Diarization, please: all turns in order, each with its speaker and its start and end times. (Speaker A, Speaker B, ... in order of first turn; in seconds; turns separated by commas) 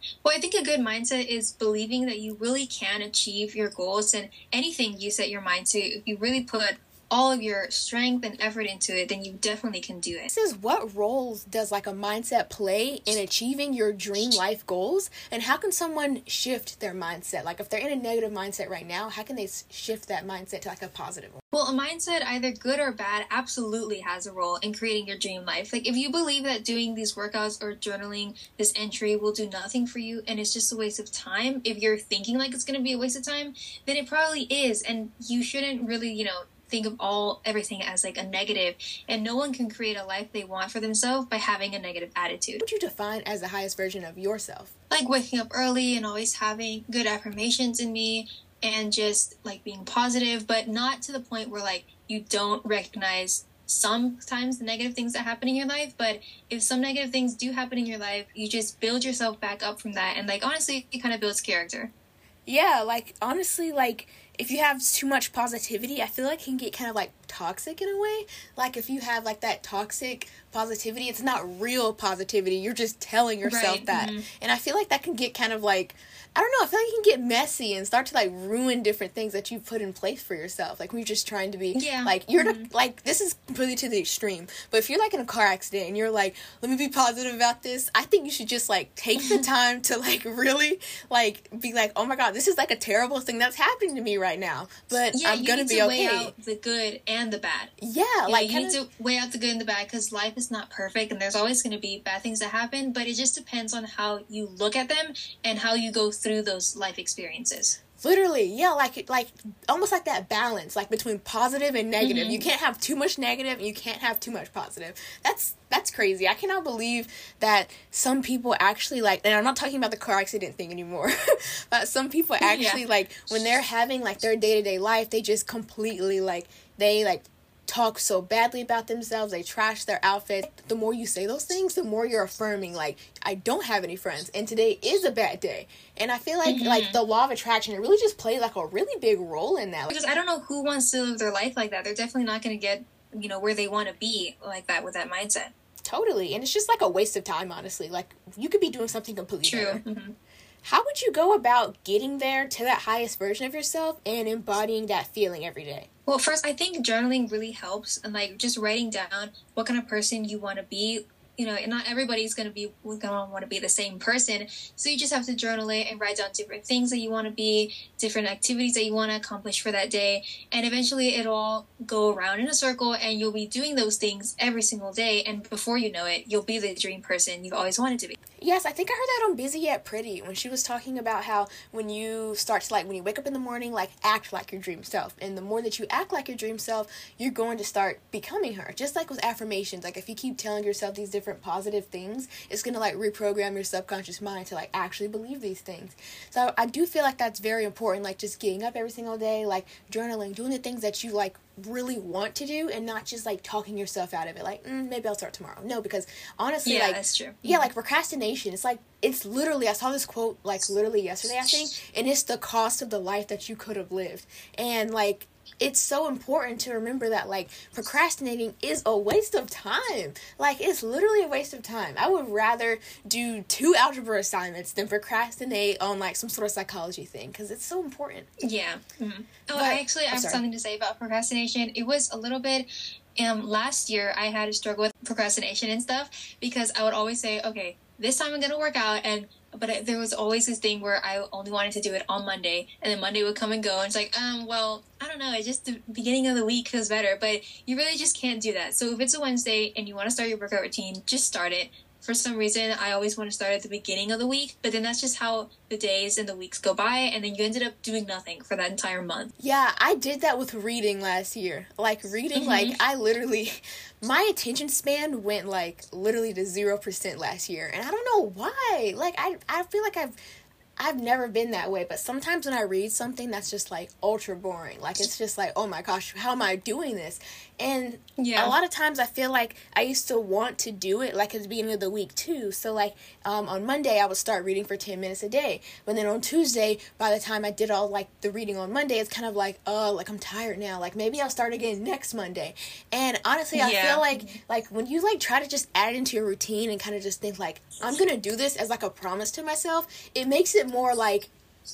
Speaker A: 0.2-10.3, Speaker B: 10.3-21.4, Speaker A: 21.5-42.6, Speaker B: 42.6-44.7, Speaker A: 44.9-61.9, Speaker B: 62.5-96.3, Speaker A: 73.4-74.3, Speaker A: 81.7-82.7, Speaker A: 95.1-97.7, Speaker B: 97.8-98.8, Speaker A: 98.3-107.8, Speaker B: 108.0-139.9, Speaker A: 112.0-112.4, Speaker A: 122.4-122.8, Speaker A: 136.4-137.0, Speaker A: 139.9-145.5, Speaker B: 145.8-149.8, Speaker A: 149.4-150.1, Speaker B: 150.6-155.9, Speaker A: 156.1-178.2, Speaker B: 178.4-228.3, Speaker A: 206.7-207.7, Speaker A: 228.4-259.3, Speaker B: 229.5-230.4, Speaker B: 259.4-270.1, Speaker A: 262.3-262.8, Speaker B: 270.8-301.3, Speaker A: 278.2-278.5, Speaker A: 293.5-294.4